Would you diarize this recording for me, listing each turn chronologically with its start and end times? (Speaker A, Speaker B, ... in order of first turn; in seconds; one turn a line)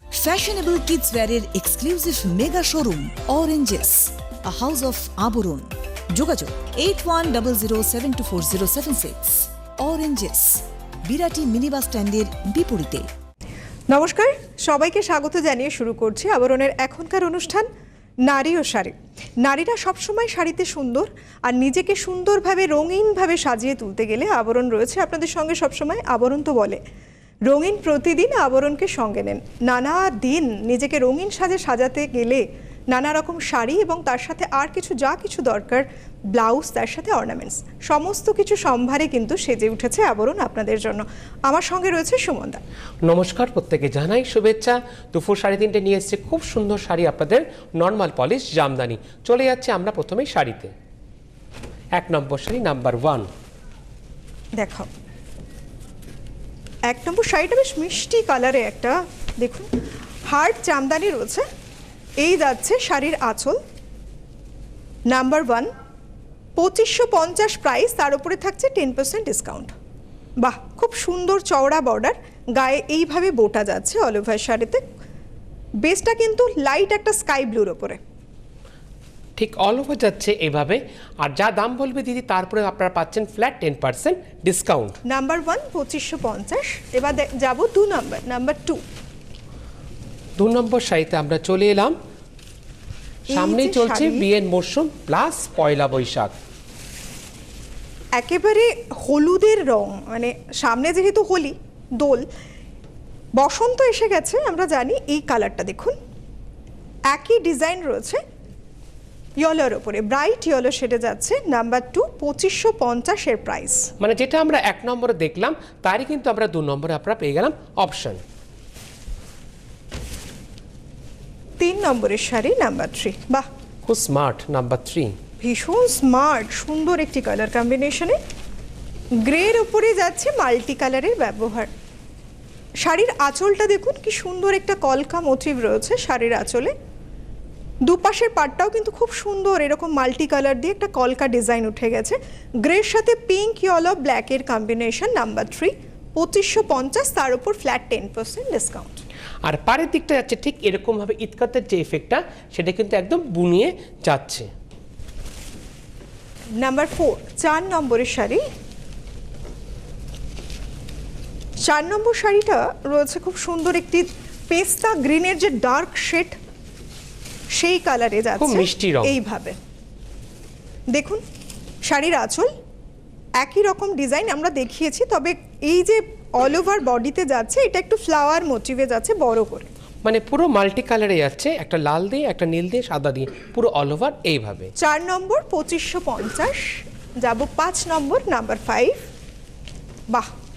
Speaker A: 0.1-13.1
Speaker B: 13.9-17.7
Speaker B: 18.2-26.8
Speaker B: 27.5-42.6
Speaker C: 43.0-50.7
Speaker C: 52.0-53.3
Speaker B: 54.6-54.9
Speaker B: 56.9-59.7
Speaker B: 60.3-61.5
Speaker B: 62.2-63.6
Speaker B: 65.1-65.7
Speaker B: 66.6-69.7
Speaker B: 70.4-74.8
Speaker B: 75.8-78.0
Speaker C: 79.4-85.0
Speaker B: 85.1-88.8
Speaker C: 90.4-92.0
Speaker B: 93.3-94.2
Speaker C: 93.3-96.3
Speaker B: 98.2-102.3
Speaker B: 103.4-106.0
Speaker B: 107.1-108.2
Speaker B: 109.4-113.9
Speaker C: 114.0-118.2
Speaker B: 121.6-123.5
Speaker C: 123.9-125.2
Speaker B: 125.4-128.2
Speaker B: 129.2-131.7
Speaker B: 132.8-136.7
Speaker B: 137.8-149.0
Speaker C: 149.4-154.5
Speaker B: 156.6-158.4
Speaker B: 161.7-166.4
Speaker B: 167.5-169.6
Speaker C: 168.4-169.2
Speaker B: 170.9-171.2
Speaker B: 171.9-172.5
Speaker B: 173.4-179.7
Speaker C: 180.0-184.7
Speaker B: 184.8-189.0